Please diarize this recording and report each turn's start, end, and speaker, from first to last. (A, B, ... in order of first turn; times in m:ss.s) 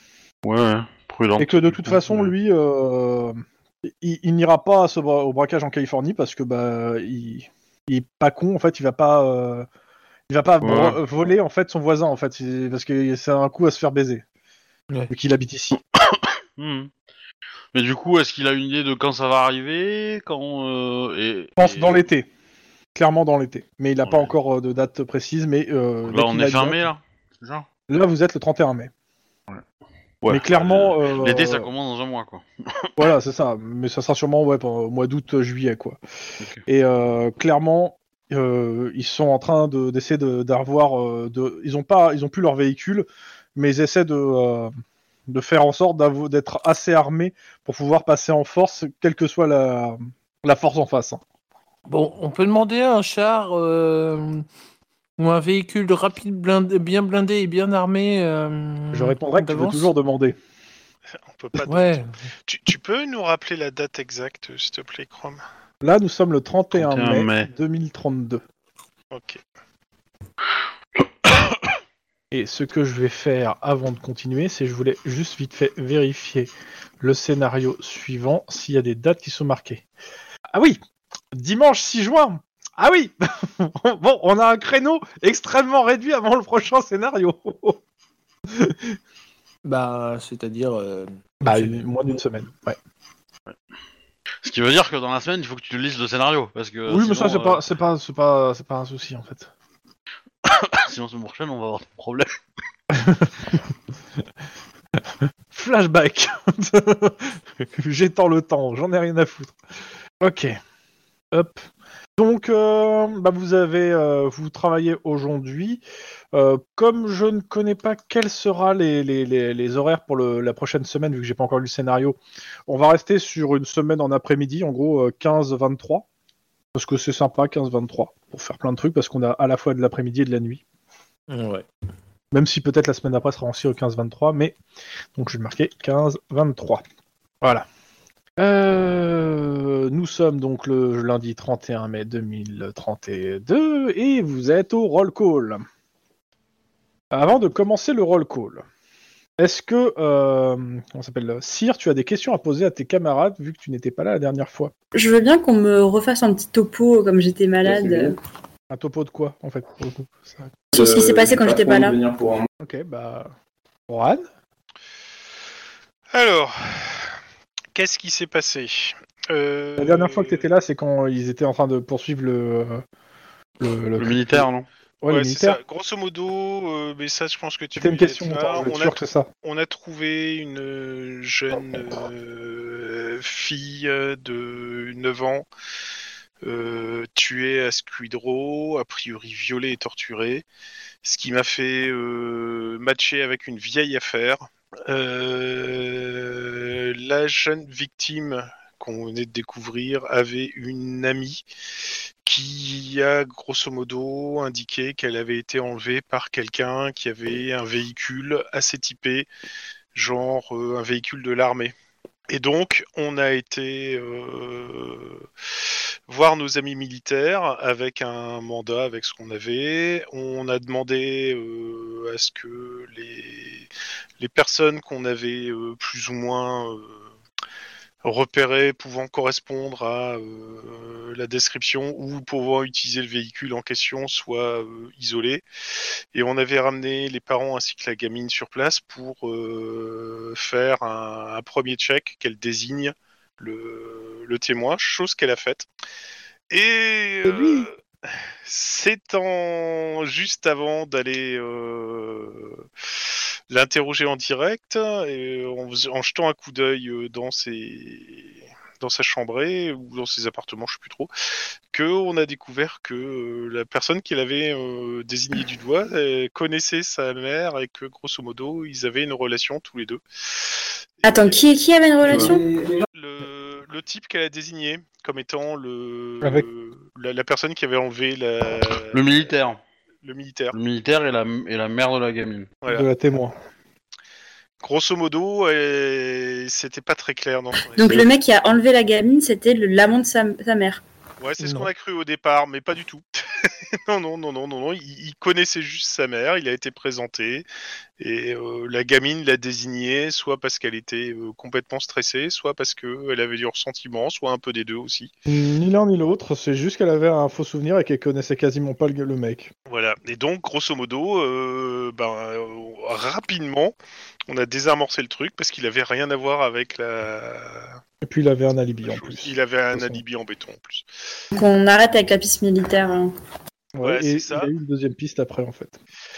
0:00.4-0:02.3 A
0:01.4-0:09.7 B
0:10.3-0:14.2 B
0:10.6-0:11.0 A
0:15.1-0:15.8 B
0:16.0-0:16.9 A
0:17.7-0:22.0 A
0:21.6-0:22.3 B
0:23.0-0:26.8 B
0:24.0-0:24.3 A
0:26.1-0:27.7 A
0:27.9-0:28.9 B
0:30.2-0:33.0 A
0:30.3-0:31.7 B
0:33.0-0:36.0 B
0:36.7-0:44.7 B
0:45.3-0:51.2 B
0:51.9-0:54.4 C
0:55.2-0:59.9 C
0:58.9-1:00.4 B
1:01.3-1:05.4 D
1:01.6-1:02.1 C
1:05.8-1:08.4 B
1:06.7-1:07.5 A
1:09.1-1:09.4 D
1:11.0-1:11.7 A
1:12.3-1:19.8 B
1:20.5-1:20.8 B
1:21.3-1:27.8 B
1:28.5-1:29.0 B
1:29.6-1:31.8 C
1:31.4-1:32.8 B
1:34.4-1:37.6 A
1:36.9-1:39.5 B
1:40.5-1:42.3 A
1:42.9-1:43.6 B
1:45.5-1:49.6 B
1:50.2-1:50.6 B
1:51.3-1:51.6 B
1:52.2-1:55.8 B
1:56.3-2:06.1 B
2:06.7-2:10.6 B
2:11.3-2:11.7 C
2:12.3-2:14.6 B
2:15.2-2:16.8 B
2:18.4-2:25.6 B
2:27.1-2:28.6 B
2:29.4-2:34.7 B
2:34.9-2:38.2 E
2:37.6-2:38.1 F
2:38.7-2:40.6 B
2:40.7-2:42.0 E
2:40.8-2:42.4 F
2:42.6-2:43.3 B
2:43.9-2:44.2 B
2:46.1-2:47.1 D
2:47.8-2:50.4 D
2:49.8-2:52.8 B
2:53.6-2:54.5 B
2:54.0-2:54.7 A
2:55.0-2:55.6 B
2:55.1-3:05.5 D
2:57.8-2:59.3 B
3:06.4-3:10.4 D
3:11.0-3:21.5 D
3:22.2-3:29.3 D
3:30.0-3:31.8 D
3:32.3-3:35.3 D
3:36.1-3:43.7 D
3:44.2-3:47.0 D
3:48.0-3:55.4 D
3:56.1-4:05.7 D
4:06.5-4:07.7 D
4:07.2-4:07.7 B
4:08.4-4:12.6 D
4:13.5-4:21.1 D
4:21.7-4:30.5 D
4:31.0-4:31.4 D
4:31.0-4:32.4 E
4:32.1-4:32.8 F
4:32.9-4:39.1 D
4:36.2-4:36.5 B
4:38.9-4:39.6 A
4:40.0-4:40.6 D
4:40.5-4:42.5 A
4:42.7-4:43.4 B
4:44.6-4:48.1 D
4:47.8-4:50.8 E
4:51.2-4:57.5 D
4:51.4-4:51.7 C
4:58.0-5:05.1 D
5:05.3-5:09.5 B
5:09.7-5:13.8 D
5:14.3-5:17.8 D
5:18.0-5:20.0 B
5:18.8-5:20.9 D
5:21.3-5:23.1 E
5:23.8-5:25.8 B
5:23.8-5:24.5 D